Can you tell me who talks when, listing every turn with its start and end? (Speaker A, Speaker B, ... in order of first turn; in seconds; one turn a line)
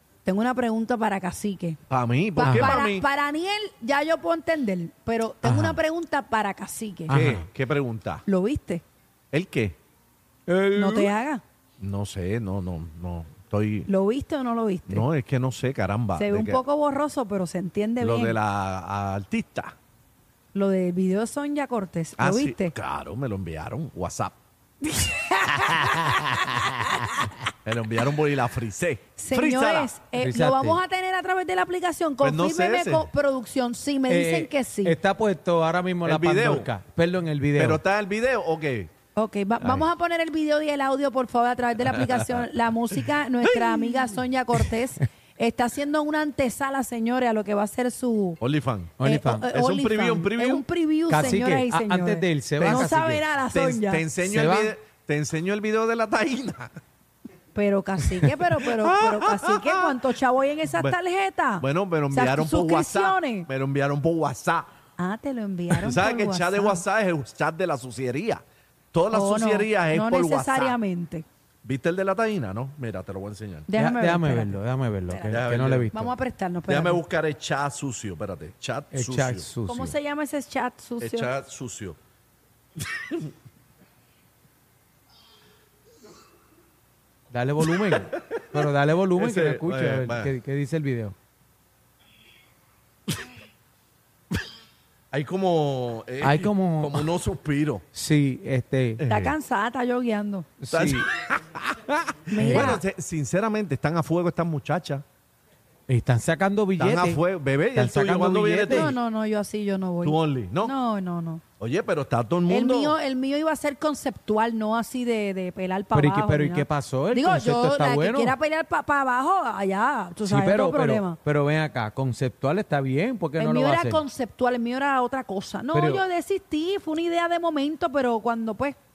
Speaker A: 0.2-1.8
Speaker B: 1.9-3.1
Speaker A: 2.4-7.2
Speaker C: 2.4-2.7
Speaker C: 5.4-5.8
Speaker C: 7.1-7.5
Speaker B: 7.1-8.2
Speaker A: 8.3-8.8
Speaker B: 9.3-9.8
Speaker C: 10.5-11.1
Speaker A: 10.7-11.4
Speaker B: 11.8-13.9
Speaker A: 13.9-15.1
Speaker B: 14.9-16.6
Speaker A: 16.2-18.4
Speaker B: 18.0-19.8
Speaker A: 20.5-22.7
Speaker B: 22.2-24.4
Speaker A: 24.9-27.3
Speaker B: 27.6-30.0
Speaker A: 29.2-35.0
Speaker C: 30.1-30.8
Speaker B: 32.2-33.1
Speaker C: 34.1-37.8
Speaker B: 36.0-36.7
Speaker B: 37.6-38.9
Speaker A: 39.1-48.4
Speaker B: 39.6-39.9
Speaker B: 43.5-43.8
Speaker B: 48.4-48.9
Speaker C: 49.0-49.5
Speaker A: 49.0-54.1
Speaker B: 49.5-50.6
Speaker C: 51.1-53.2
Speaker B: 52.6-52.9
Speaker B: 53.5-56.8
Speaker C: 54.2-54.7
Speaker A: 57.5-63.5
Speaker B: 58.1-60.0
Speaker B: 61.6-64.7
Speaker A: 65.0-66.8
Speaker B: 65.7-70.8
Speaker A: 69.1-71.2
Speaker B: 71.6-73.7
Speaker A: 73.7-77.0
Speaker C: 73.7-76.1
Speaker B: 75.3-75.9
Speaker B: 76.7-79.5
Speaker C: 78.9-80.0
Speaker A: 79.7-81.3
Speaker B: 81.0-82.0
Speaker B: 83.0-83.2
Speaker C: 87.3-91.2
Speaker B: 88.3-88.6
Speaker B: 89.2-90.3
Speaker B: 95.1-97.8
Speaker C: 96.2-97.1
Speaker C: 97.9-99.0
Speaker B: 99.0-99.3
Speaker A: 99.1-100.5
Speaker C: 100.6-101.1
Speaker B: 100.7-105.0
Speaker A: 102.3-102.8
Speaker C: 102.4-102.8
Speaker C: 105.9-107.2
Speaker B: 106.8-109.0
Speaker C: 107.7-108.9
Speaker A: 108.7-111.4
Speaker B: 110.0-110.7
Speaker B: 111.6-113.0
Speaker A: 112.5-121.2
Speaker C: 115.9-118.3
Speaker C: 120.2-124.0
Speaker A: 123.4-128.8
Speaker C: 125.7-126.0